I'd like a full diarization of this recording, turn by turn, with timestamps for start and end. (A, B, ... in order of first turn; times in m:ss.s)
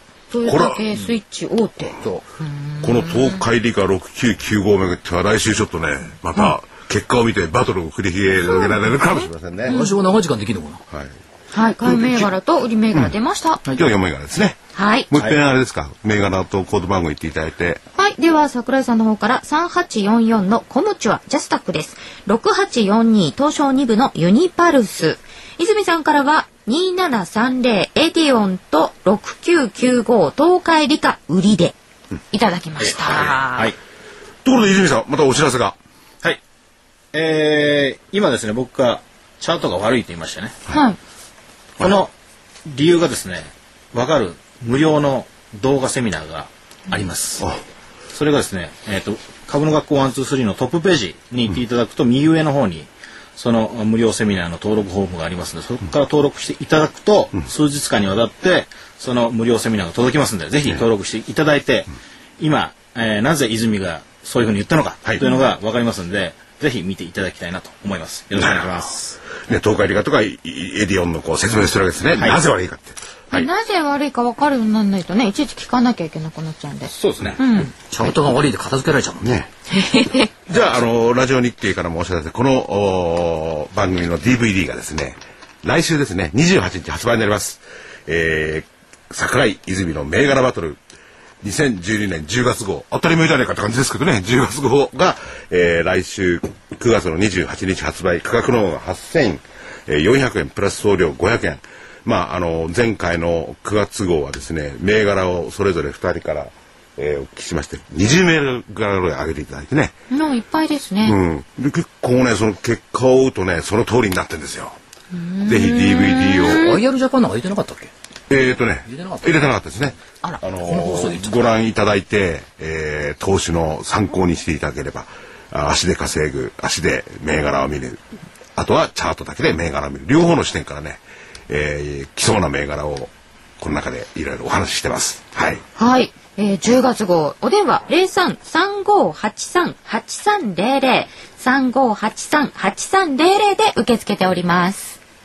0:00.3-0:03.4 A
0:00.4-0:00.8 B
0:02.8-0:09.8 B
0:08.3-0:10.0 A
0:09.7-0:10.8 C
0:10.9-0:11.2 B
0:11.5-0:13.6 A
0:11.8-0:12.3 B
0:13.7-0:14.6 B
0:14.8-0:15.1 A
0:15.1-0:17.8 B
0:18.0-0:31.8 A
0:32.3-0:33.7 A
0:32.8-0:33.8 D
0:33.0-0:33.4 B
0:34.4-0:35.8 B
0:37.1-0:40.6 D
0:40.7-0:41.0 A
0:41.8-0:42.1 D
0:42.7-0:47.5 D
0:48.1-1:09.2 D
1:08.3-1:08.7 B
1:09.3-1:13.5 B
1:13.3-1:17.9 A
1:16.9-1:17.4 D
1:17.8-1:19.3 C
1:19.2-1:19.5 B
1:19.7-1:20.3 A
1:20.5-1:30.8 B
1:31.4-1:50.0 B
1:50.1-1:51.2 A
1:51.0-1:54.8 B
1:55.1-1:56.8 A
1:55.4-1:56.7 B
1:56.4-1:57.9 C
1:58.3-2:08.0 B
1:58.9-1:59.5 C
2:00.1-2:01.5 C
2:08.6-2:15.6 B
2:15.8-2:25.0 A